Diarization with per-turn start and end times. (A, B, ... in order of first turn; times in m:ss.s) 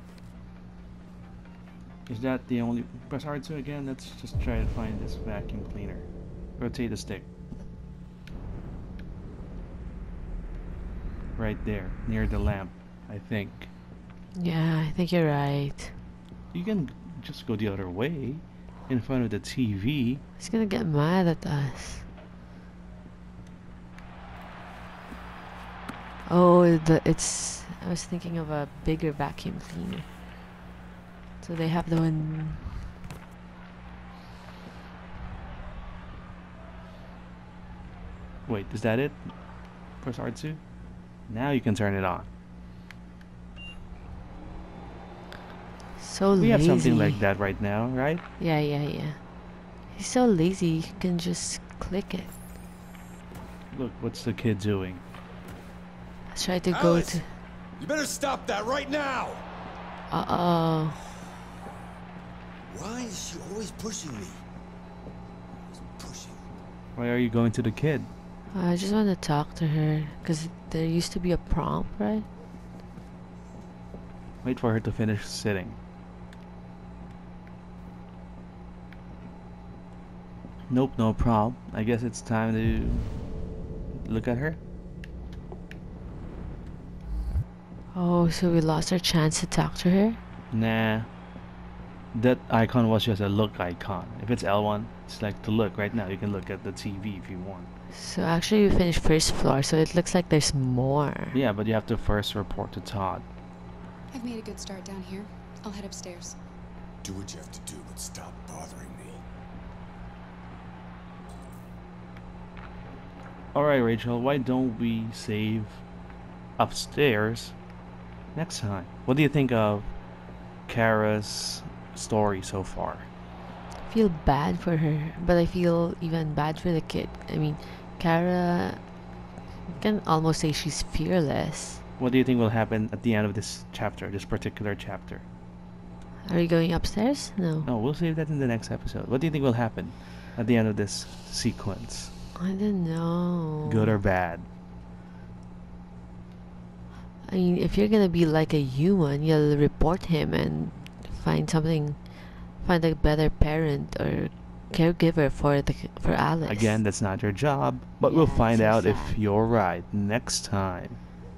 0:02.1-0:06.0 A
0:06.6-0:07.2 A
0:11.4-0:13.7 A
0:14.3-0:16.0 B
0:16.5-0:20.2 A
0:20.4-0:22.0 B
0:26.2-0:30.1 B
0:31.4-0:32.8 B
0:38.4-0:39.3 A
0:40.0-0:40.6 A
0:41.3-0:42.3 A
0:46.0-0:47.2 B
0:46.4-0:48.2 A
0:48.4-0:52.3 B
0:53.7-0:55.0 A
0:56.3-0:57.3 B
0:56.7-0:57.2 C
0:57.8-0:59.4 C
1:00.1-1:01.1 B
1:02.6-1:04.4 C
1:05.7-1:06.4 C
1:06.9-1:08.1 A
1:08.5-1:12.2 B
1:14.4-1:15.8 A
1:20.7-1:23.1 A
1:23.9-1:24.6 A
1:27.9-1:30.2 B
1:30.5-1:31.1 A
1:32.1-1:37.7 A
1:37.9-1:41.4 B
1:41.3-1:43.2 A
1:44.1-1:46.4 D
1:47.0-1:49.2 C
1:53.5-1:55.8 A
1:56.6-1:57.5 A
1:58.3-1:59.9 A
2:00.6-2:03.1 A
2:03.9-2:08.9 B
2:09.7-2:11.8 B
2:12.0-2:15.2 A
2:16.2-2:17.7 B
2:17.6-2:22.1 A
2:22.4-2:24.0 B
2:23.6-2:24.4 A
2:27.2-2:36.8 B
2:36.4-2:41.0 A
2:38.0-2:39.2 B